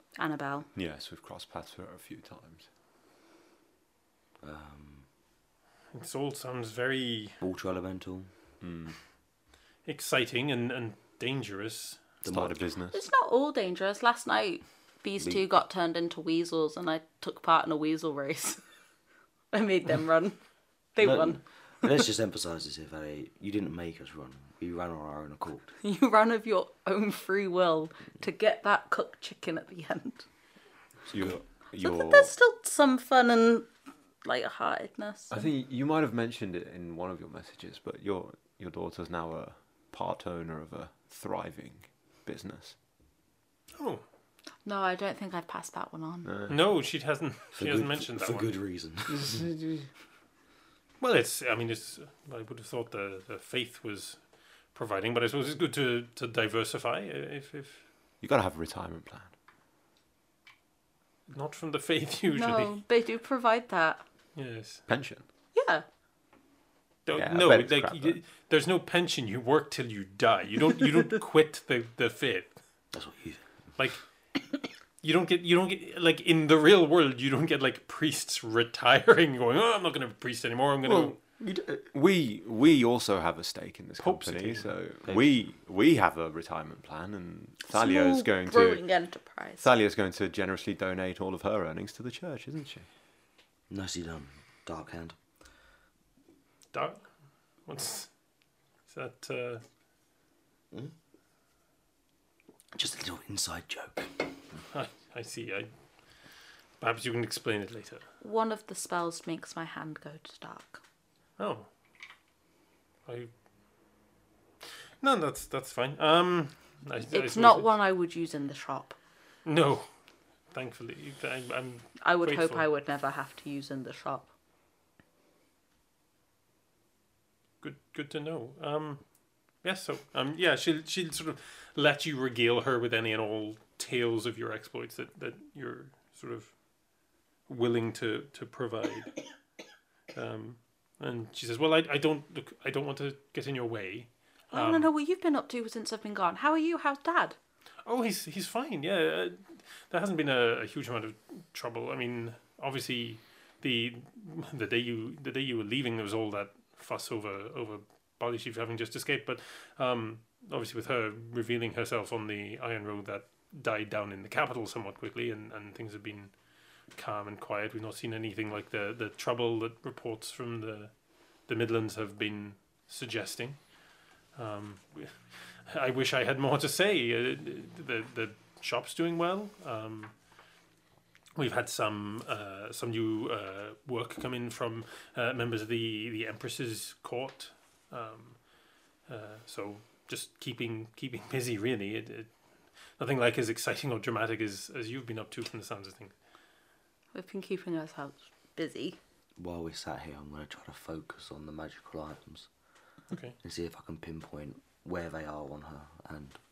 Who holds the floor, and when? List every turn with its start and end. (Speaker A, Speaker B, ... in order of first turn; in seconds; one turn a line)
Speaker A: 0.2-0.7
Speaker B: 0.8-2.6
Speaker C: 4.4-5.0
Speaker D: 5.9-7.4
Speaker C: 7.4-8.3
Speaker B: 8.6-8.9
Speaker D: 9.8-12.0
Speaker C: 12.2-12.6
Speaker B: 12.2-13.0
Speaker A: 12.9-18.6
Speaker A: 19.5-20.4
Speaker A: 20.9-21.4
Speaker C: 21.0-25.7
Speaker A: 25.8-30.3
Speaker B: 31.1-32.3
Speaker A: 31.8-33.7
Speaker A: 34.2-35.4
Speaker B: 35.3-42.8
Speaker D: 43.8-44.0
Speaker A: 44.6-46.3
Speaker B: 46.2-46.6
Speaker D: 46.5-48.5
Speaker C: 47.5-49.4
Speaker B: 49.1-49.9
Speaker D: 51.0-54.2
Speaker D: 54.7-57.8
Speaker B: 58.2-59.3
Speaker D: 61.3-62.7
Speaker A: 62.3-64.0
Speaker D: 64.3-64.8
Speaker B: 64.9-65.2
Speaker A: 65.5-65.8
Speaker D: 67.1-72.5
Speaker B: 67.2-68.2
Speaker C: 72.9-73.4
Speaker D: 75.0-81.2
Speaker B: 80.8-88.8
Speaker D: 84.0-84.7
Speaker A: 87.7-89.7
Speaker B: 89.6-92.9
Speaker C: 93.7-95.2
Speaker D: 96.7-97.0
Speaker D: 97.7-98.1
Speaker D: 98.9-99.6
Speaker C: 102.7-104.3
Speaker D: 104.7-105.7
Speaker D: 106.8-108.0
Speaker A: 108.2-110.8
Speaker D: 111.4-111.7
Speaker D: 115.0-117.7
Speaker A: 117.1-119.0
Speaker D: 119.5-119.9
Speaker D: 120.5-122.6
Speaker A: 122.0-124.3
Speaker D: 127.6-129.1
Speaker D: 129.6-136.5
Speaker D: 137.5-139.2
Speaker D: 140.1-144.9
Speaker A: 144.5-147.4
Speaker D: 147.9-166.3
Speaker D: 166.9-170.9
Speaker D: 171.5-173.6
Speaker D: 174.3-180.1
Speaker D: 181.4-188.4
Speaker D: 189.1-192.3
Speaker D: 193.0-196.1
Speaker A: 197.1-199.0
Speaker C: 199.4-202.5
Speaker D: 203.1-203.4
Speaker C: 203.4-206.4